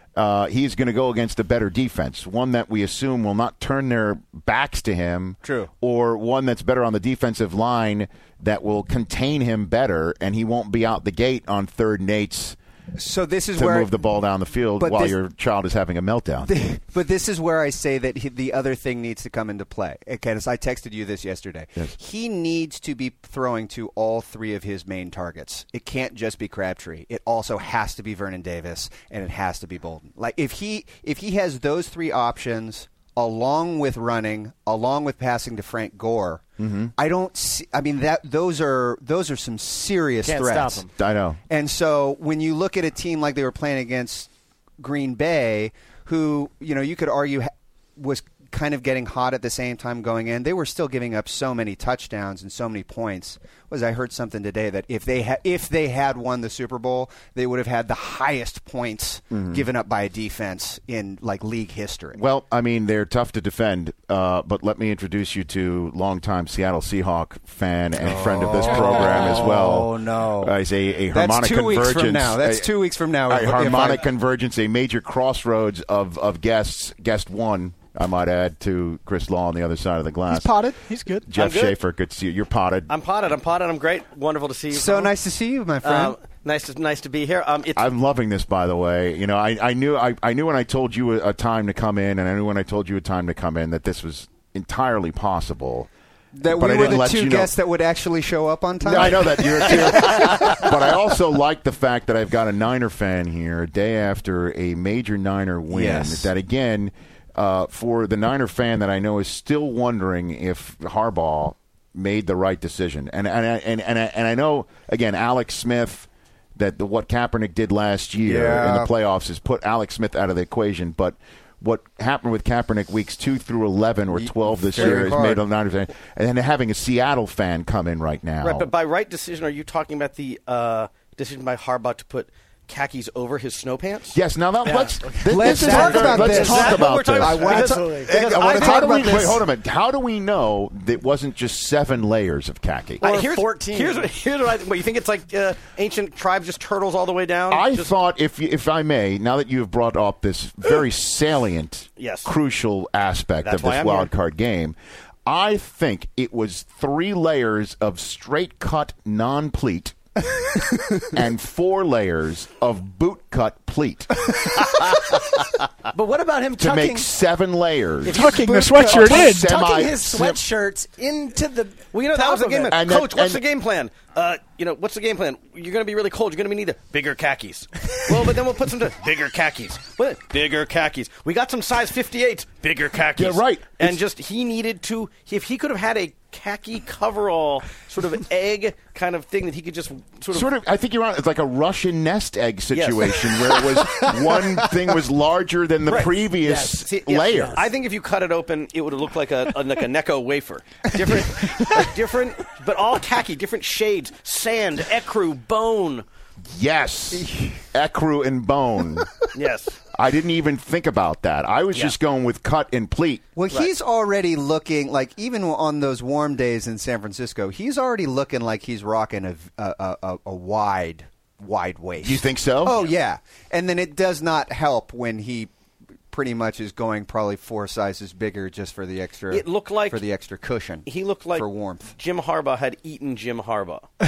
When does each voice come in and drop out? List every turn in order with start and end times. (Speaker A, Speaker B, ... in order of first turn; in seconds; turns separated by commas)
Speaker A: 0.1-12.6, Speaker B: 5.4-5.7, Speaker B: 12.9-13.9, Speaker A: 13.6-16.5, Speaker B: 14.8-15.2, Speaker B: 16.4-36.4, Speaker A: 36.6-36.9, Speaker B: 37.0-40.9, Speaker C: 40.2-40.9, Speaker A: 41.0-41.4, Speaker B: 41.5-62.2, Speaker A: 59.3-59.6, Speaker A: 62.1-72.7, Speaker B: 68.0-70.5, Speaker B: 71.1-74.1, Speaker A: 73.3-80.5, Speaker D: 80.3-81.3, Speaker A: 81.3-82.9, Speaker E: 81.3-81.8, Speaker E: 82.9-85.1, Speaker B: 84.7-86.2, Speaker E: 85.8-87.8, Speaker A: 87.8-95.9, Speaker B: 96.3-100.7, Speaker A: 96.4-97.5, Speaker A: 98.8-128.7, Speaker E: 99.7-100.6, Speaker B: 105.7-106.3, Speaker B: 118.2-118.9, Speaker B: 124.1-125.4, Speaker E: 124.8-125.1, Speaker E: 128.4-134.2, Speaker A: 134.1-143.0, Speaker C: 134.6-138.1, Speaker B: 135.2-139.4, Speaker E: 135.8-139.4, Speaker E: 143.0-147.9, Speaker C: 143.0-144.1, Speaker A: 147.5-154.7, Speaker E: 152.0-152.3, Speaker E: 153.4-154.1, Speaker A: 155.2-160.0, Speaker B: 160.6-161.0, Speaker A: 161.1-164.5, Speaker C: 165.9-167.1, Speaker A: 166.6-170.4, Speaker E: 168.1-168.8, Speaker D: 168.1-169.5, Speaker C: 168.7-172.7, Speaker E: 171.9-190.5, Speaker B: 172.3-172.6, Speaker A: 172.7-173.4, Speaker A: 183.1-184.0, Speaker A: 190.3-197.6, Speaker E: 192.7-193.4, Speaker C: 195.9-197.7, Speaker E: 197.0-206.1, Speaker A: 206.5-209.1, Speaker E: 209.3-209.8, Speaker A: 209.9-213.2, Speaker B: 213.3-225.5, Speaker A: 222.0-222.8, Speaker E: 222.7-222.9, Speaker B: 226.1-231.9, Speaker E: 229.3-230.0, Speaker E: 230.8-231.5, Speaker E: 232.0-233.9